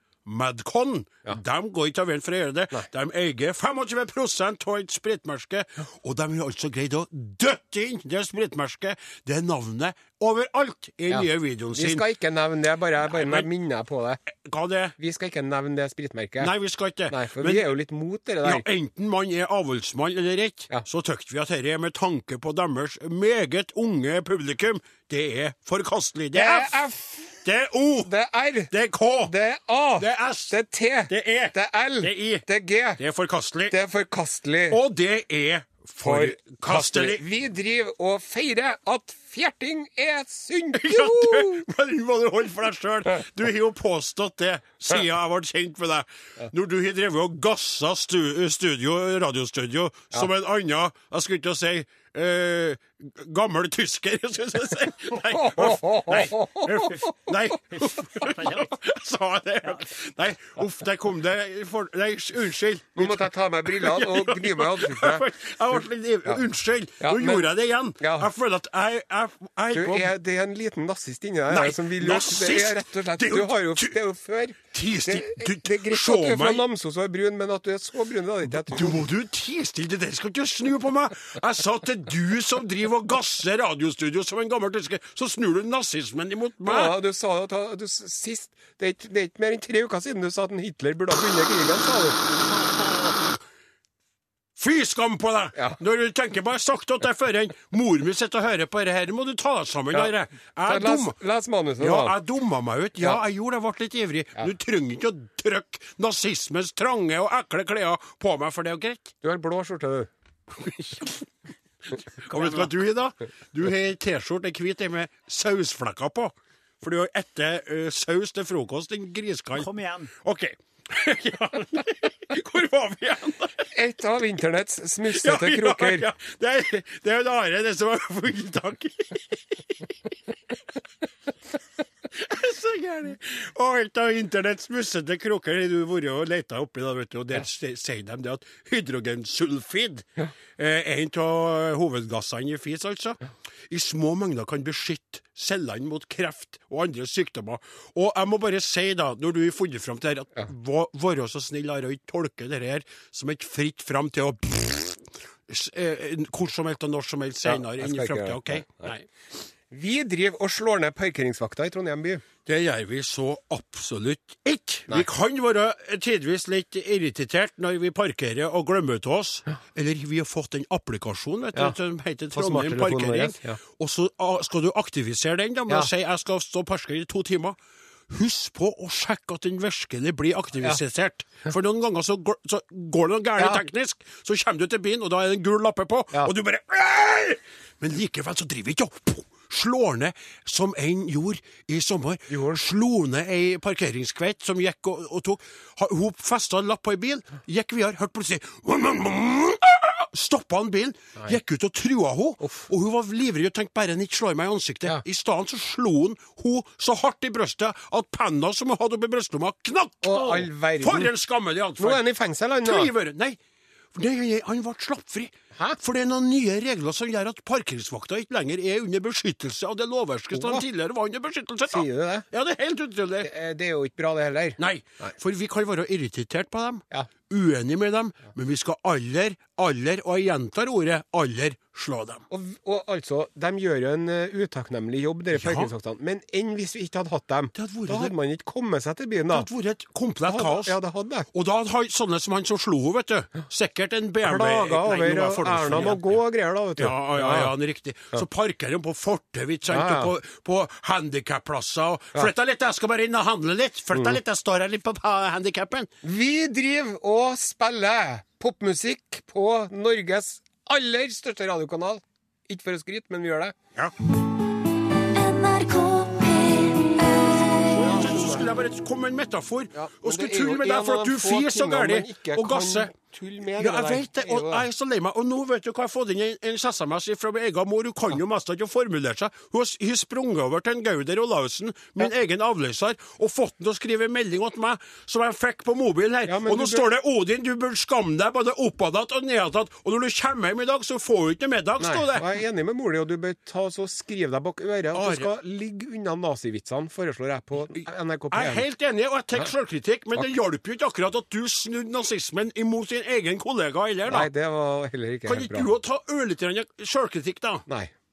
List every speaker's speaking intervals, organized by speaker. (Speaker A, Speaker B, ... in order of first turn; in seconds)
Speaker A: 0.2-12.0, 13.0-13.5, 14.3-14.9, 16.4-17.8, 18.4-26.8, 27.4-28.1, 28.7-29.3, 30.0-32.5, 33.0-33.8, 34.7-37.2, 40.7-70.1, 71.5-74.0, 74.7-76.6, 78.5-87.0, 92.5-93.4, 94.6-101.2, 101.8-109.1, 110.5-111.3, 111.9-123.7, 125.1-129.9, 132.1-159.1, 162.4-177.6, 178.1-212.0, 212.6-213.4, 213.9-223.3, 224.6-232.2, 235.3-235.7, 237.5-238.1, 239.3-240.8, 241.3-246.2, 246.8-255.9, 267.6-272.9, 273.6-292.3, 294.9-295.3, 298.3-304.3, 305.2-307.6
Speaker B: 11.1-14.2, 15.0-16.5, 17.1-18.6, 26.3-27.4, 28.0-28.7, 29.2-33.0, 33.7-34.8, 36.0-41.6, 55.3-56.9, 63.0-65.2, 67.0-68.3, 69.7-79.0, 86.6-92.2, 100.6-102.1, 109.2-110.1, 112.3-112.6, 123.7-126.1, 157.4-158.9, 159.7-162.2, 172.3-173.6, 183.4-183.6, 192.3-192.6, 210.0-211.1, 211.8-212.9, 220.3-220.6, 221.7-222.2, 223.2-225.1, 232.3-239.5, 240.2-241.3, 244.2-247.5, 249.7-250.1, 256.0-263.5, 269.7-274.7, 286.2-286.8, 291.8-298.6, 304.1-305.7, 307.7-307.9
Speaker C: 58.2-58.6, 119.6-120.1, 265.0-268.2